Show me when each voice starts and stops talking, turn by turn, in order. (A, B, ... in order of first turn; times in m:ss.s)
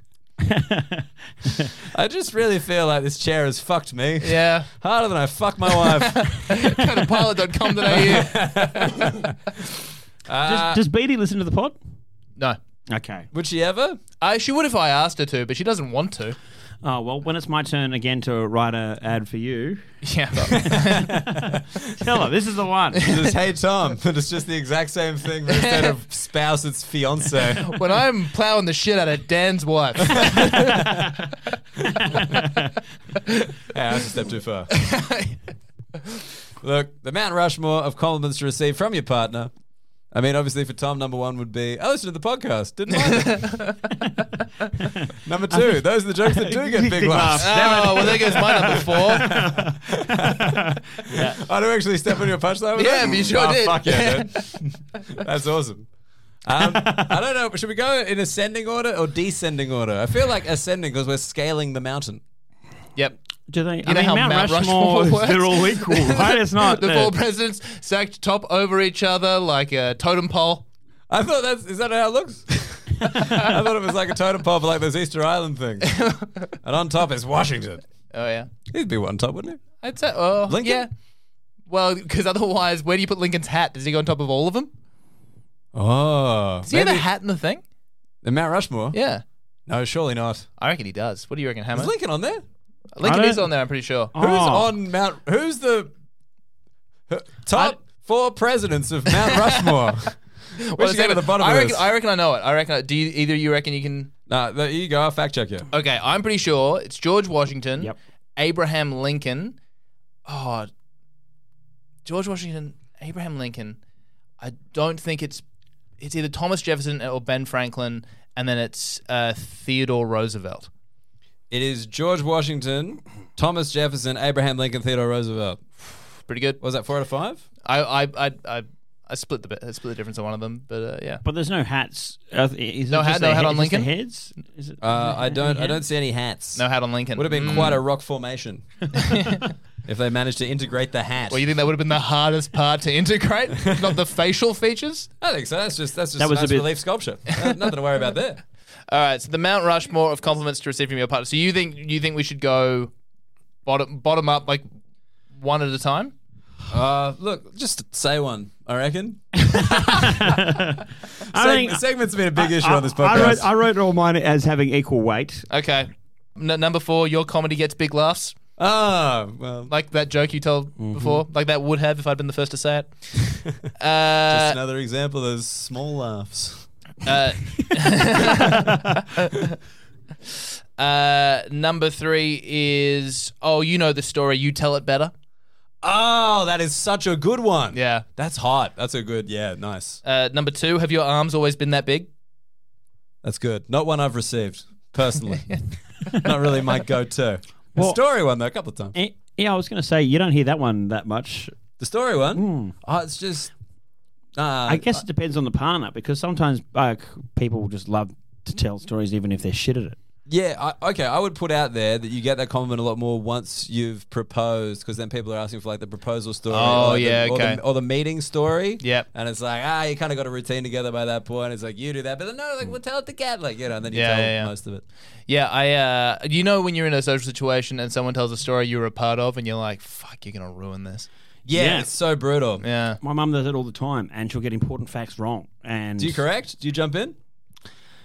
0:00.4-0:01.7 A
0:01.9-0:06.4 B
0:04.2-0:04.7 C
0:06.0-0:08.3 C
0:07.9-0:09.4 B
0:10.3-0:10.8 B
0:10.5-0:11.8 A
0:12.9-0:13.3 A
0:13.3-0:14.0 B
0:14.2-0:16.4 C
0:16.8-0:19.8 A
0:20.0-0:21.1 C
0:20.6-0:21.8 B
0:22.0-0:23.1 A
0:23.0-0:27.8 B
0:25.6-0:25.9 C
0:27.6-0:30.8 C
0:30.3-0:30.9 B
0:33.7-0:34.7 B
0:34.8-0:35.4 C
0:36.6-0:39.5 B
0:40.1-0:43.6 B
0:43.1-0:43.7 C
0:45.2-0:55.9 B
0:45.5-0:51.4 A
0:47.4-0:49.3 C
0:52.8-0:54.5 C
0:56.4-1:02.2 B
0:56.6-0:57.1 A
1:03.5-1:07.1 A
1:03.8-1:10.7 C
1:11.1-1:17.8 B
1:15.9-1:16.3 C
1:18.1-1:18.5 C
1:18.7-1:19.8 B
1:19.8-1:20.9 C
1:20.5-1:20.9 B
1:21.7-1:24.7 C
1:25.7-1:27.1 B
1:26.7-1:27.6 C
1:28.2-1:29.0 B
1:28.9-1:29.2 C
1:29.7-1:30.5 B
1:30.6-1:31.9 C
1:31.7-1:32.4 B
1:33.0-1:34.1 C
1:33.0-1:33.5 A
1:34.1-1:34.7 A
1:34.2-1:35.9 B
1:37.1-1:41.9 B
1:40.6-1:44.1 C
1:44.3-1:45.7 B
1:45.7-1:49.6 C
1:50.3-1:50.7 C
1:52.0-1:53.8 C
1:54.4-1:55.4 C
1:56.0-2:00.7 C
2:01.5-2:05.6 B
2:06.3-2:06.6 C
2:06.6-2:07.4 B
2:07.6-2:11.2 C
2:11.2-2:15.8 A
2:12.9-2:13.9 C
2:14.8-2:18.9 B
2:16.6-2:17.8 C
2:18.9-2:19.5 C
2:19.8-2:21.5 B
2:21.3-2:25.1 C
2:25.2-2:28.4 B
2:26.2-2:26.7 A
2:28.9-2:32.9 C
2:33.6-2:34.6 C
2:35.4-2:36.1 C
2:36.7-2:40.3 B
2:39.4-2:41.8 A
2:41.3-2:43.5 B
2:42.4-2:45.4 A
2:45.5-2:48.4 C
2:48.6-2:49.7 B
2:49.7-2:53.0 C
2:50.8-2:51.2 A
2:53.8-2:54.6 C
2:54.3-2:56.7 B
2:57.0-2:59.4 C
3:00.8-3:05.1 C
3:05.8-3:10.0 B
3:07.7-3:08.0 C
3:10.0-3:12.1 C
3:13.2-3:19.0 B
3:18.9-3:21.6 A
3:21.8-3:23.5 B
3:22.3-3:22.8 A
3:24.4-3:25.0 B
3:24.7-3:30.0 A
3:30.3-3:44.8 B
3:36.5-3:37.6 C
3:43.9-3:44.5 C
3:45.3-3:51.1 C
3:51.5-3:52.6 B
3:51.5-3:51.9 A
3:52.6-3:53.0 C
3:53.0-3:56.2 A
3:56.0-3:57.2 B